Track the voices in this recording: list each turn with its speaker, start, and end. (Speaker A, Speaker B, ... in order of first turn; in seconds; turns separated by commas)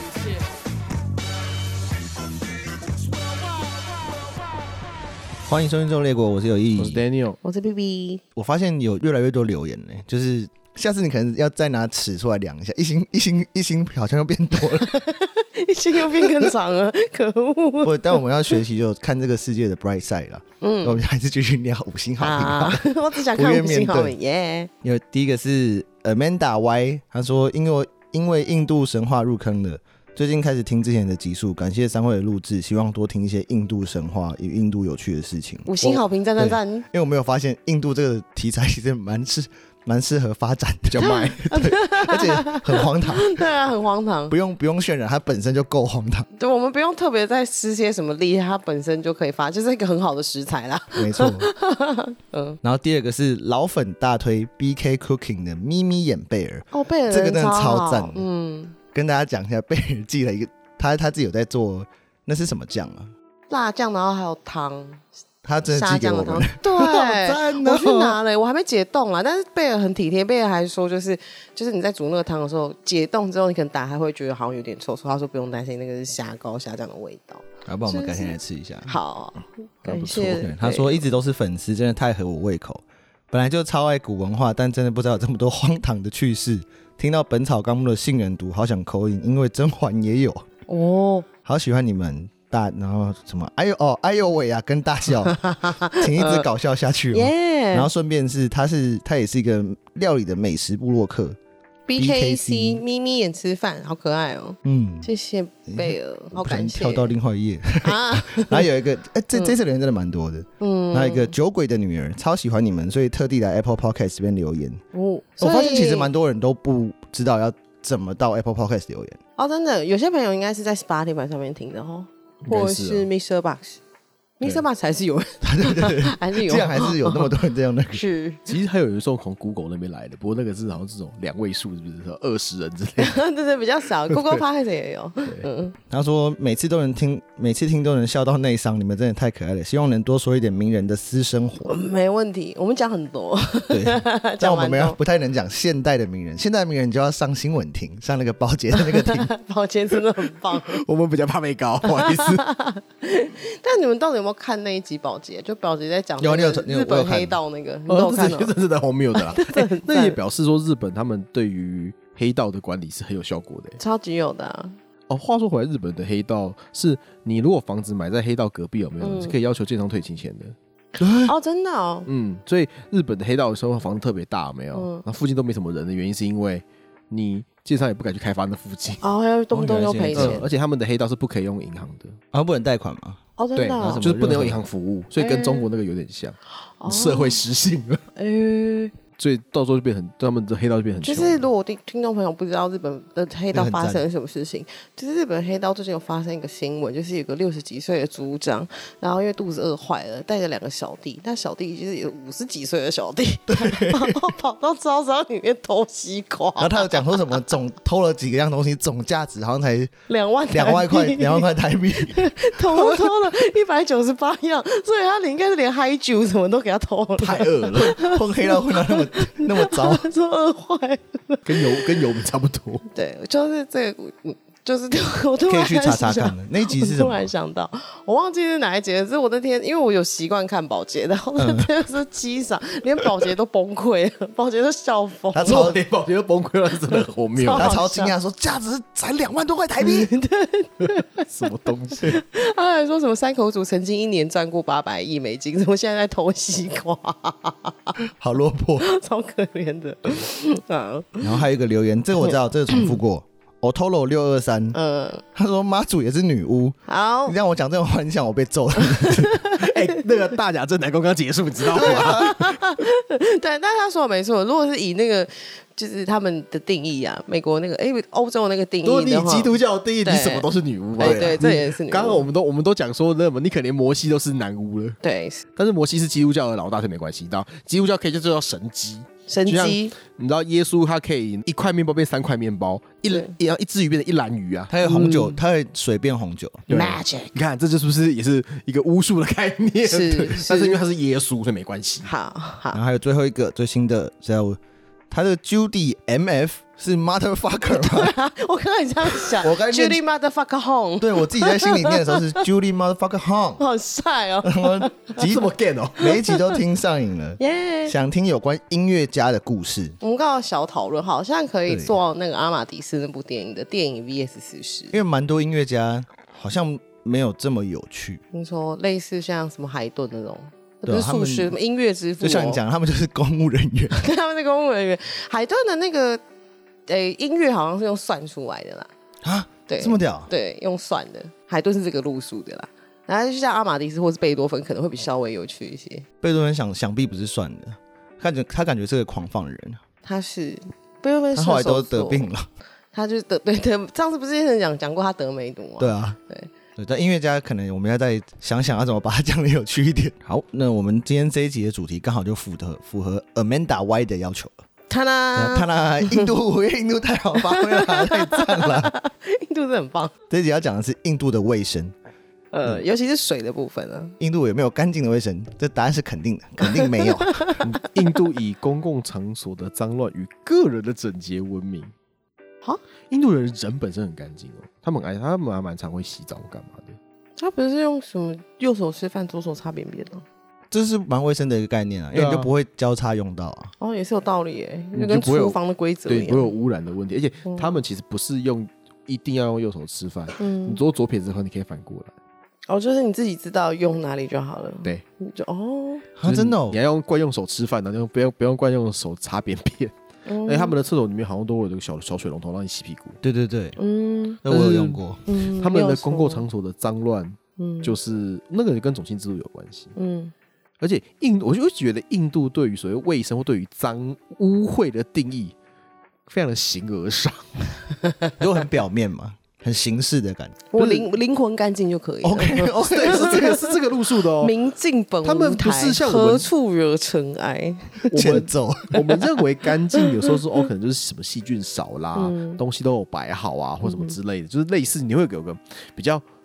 Speaker A: 5.4-7.0, Speaker B: 6.8-7.4, Speaker C: 7.4-8.2, Speaker A: 8.3-14.9, Speaker C: 14.8-18.2, Speaker A: 16.2-16.5, Speaker A: 17.8-24.1, Speaker C: 20.6-21.0, Speaker C: 22.2-24.7, Speaker A: 24.8-43.4, Speaker C: 35.6-36.9, Speaker B: 40.9-41.4, Speaker C: 41.0-44.3, Speaker A: 44.3-46.3, Speaker C: 46.4-52.6, Speaker A: 50.9-51.5, Speaker A: 52.6-58.2, Speaker C: 56.7-58.8, Speaker A: 58.9-63.1, Speaker C: 63.5-65.0, Speaker A: 65.4-68.2, Speaker C: 65.7-78.3, Speaker A: 77.7-78.9, Speaker C: 78.9-81.0, Speaker A: 79.8-90.5, Speaker C: 90.7-91.3, Speaker A: 91.4-101.4, Speaker C: 95.4-96.5, Speaker C: 97.1-97.9, Speaker C: 101.9-107.1, Speaker A: 102.0-102.8, Speaker A: 104.6-105.1, Speaker A: 105.7-114.8, Speaker C: 107.8-108.7, Speaker C: 110.6-111.3, Speaker C: 114.9-116.1, Speaker A: 115.4-119.2, Speaker C: 119.4-123.8, Speaker B: 122.4-123.1, Speaker C: 124.4-127.3, Speaker A: 125.4-128.0, Speaker C: 127.9-128.5, Speaker B: 128.5-133.2, Speaker C: 133.0-135.8, Speaker B: 134.1-134.4, Speaker B: 135.2-135.5, Speaker A: 135.9-141.7, Speaker C: 141.6-145.0, Speaker A: 143.7-149.3, Speaker C: 148.8-150.8, Speaker B: 150.7-152.5, Speaker C: 151.9-158.5, Speaker A: 156.2-157.4, Speaker B: 157.9-163.8, Speaker C: 159.1-160.2, Speaker C: 163.8-164.8, Speaker B: 165.1-170.5, Speaker C: 169.0-169.3, Speaker A: 171.0-171.3, Speaker C: 171.2-172.1, Speaker B: 172.1-179.0, Speaker C: 174.7-175.0, Speaker C: 179.0-180.4, Speaker A: 179.5-180.4, Speaker B: 180.1-182.2, Speaker A: 182.3-183.2, Speaker C: 183.4-184.1, Speaker B: 183.6-188.0, Speaker A: 183.8-184.6, Speaker C: 185.2-185.7, Speaker C: 186.8-187.4, Speaker C: 188.2-188.9, Speaker B: 189.2-191.4, Speaker C: 191.0-207.4, Speaker A: 193.5-194.0, Speaker A: 203.5-204.3, Speaker A: 206.6-209.9, Speaker C: 210.1-211.5, Speaker A: 210.5-213.1, Speaker C: 212.0-221.9, Speaker B: 217.2-217.9, Speaker A: 217.8-220.1, Speaker B: 221.4-222.8, Speaker C: 222.9-235.7, Speaker A: 225.5-227.2, Speaker A: 231.4-231.7, Speaker A: 235.3-235.8, Speaker B: 235.4-237.7, Speaker C: 236.9-238.1, Speaker A: 237.5-240.1, Speaker C: 239.8-248.0, Speaker B: 240.8-242.2, Speaker A: 248.1-248.9, Speaker C: 248.8-251.4, Speaker A: 251.2-254.8, Speaker C: 254.7-255.2, Speaker A: 255.3-259.4, Speaker C: 256.9-257.4, Speaker C: 258.8-259.7, Speaker B: 259.6-262.6, Speaker C: 261.7-270.5, Speaker A: 261.8-262.4, Speaker B: 268.8-275.0, Speaker C: 271.0-272.3, Speaker A: 271.0-271.4, Speaker C: 275.0-275.4, Speaker B: 275.6-284.8, Speaker C: 279.3-279.9, Speaker C: 283.1-283.3, Speaker A: 284.7-286.6, Speaker C: 284.8-285.4, Speaker B: 286.7-292.1, Speaker C: 286.7-287.3, Speaker C: 289.8-290.8, Speaker C: 292.1-292.8, Speaker A: 292.7-294.6, Speaker A: 295.1-298.1, Speaker C: 297.7-302.4, Speaker A: 299.2-300.0, Speaker A: 301.0-303.6, Speaker C: 303.6-305.3, Speaker A: 304.4-305.4, Speaker B: 305.2-306.1, Speaker A: 306.0-310.0, Speaker C: 306.0-306.6, Speaker C: 307.4-307.9, Speaker C: 310.0-314.9, Speaker A: 311.7-311.9, Speaker A: 314.9-318.2, Speaker C: 318.3-322.6, Speaker A: 320.8-321.5, Speaker A: 322.2-324.0, Speaker C: 323.9-326.2, Speaker C: 326.9-328.9, Speaker A: 329.2-330.3, Speaker C: 329.7-336.1, Speaker A: 336.2-339.8, Speaker C: 340.0-342.3, Speaker A: 341.4-342.4, Speaker C: 342.9-346.5, Speaker A: 345.8-346.2, Speaker A: 346.8-354.5, Speaker C: 354.9-356.3, Speaker A: 355.4-358.9, Speaker C: 357.4-360.1, Speaker A: 360.3-361.9, Speaker C: 362.5-364.1, Speaker A: 364.2-367.6, Speaker C: 366.6-367.7, Speaker B: 367.6-371.9, Speaker B: 373.1-377.0, Speaker C: 377.4-380.2, Speaker A: 380.7-383.7, Speaker B: 382.1-382.5, Speaker C: 383.8-386.5, Speaker B: 384.9-392.1, Speaker C: 387.5-387.8, Speaker C: 390.4-390.8, Speaker C: 392.7-396.1, Speaker A: 396.2-396.8, Speaker B: 396.2-399.9, Speaker C: 400.2-400.8, Speaker B: 400.4-403.2, Speaker A: 403.2-403.8, Speaker C: 403.8-404.4, Speaker A: 404.4-405.2, Speaker B: 404.5-409.9, Speaker C: 405.2-406.4, Speaker C: 407.6-407.9, Speaker C: 409.9-410.3, Speaker B: 410.8-415.5, Speaker B: 416.3-417.5, Speaker A: 418.4-420.6, Speaker C: 420.7-423.7, Speaker B: 420.8-421.1, Speaker A: 422.2-423.6, Speaker B: 422.9-424.5, Speaker C: 424.4-429.2, Speaker B: 425.2-426.5, Speaker B: 428.1-436.2, Speaker A: 428.1-429.0, Speaker C: 432.1-432.6, Speaker C: 433.8-434.1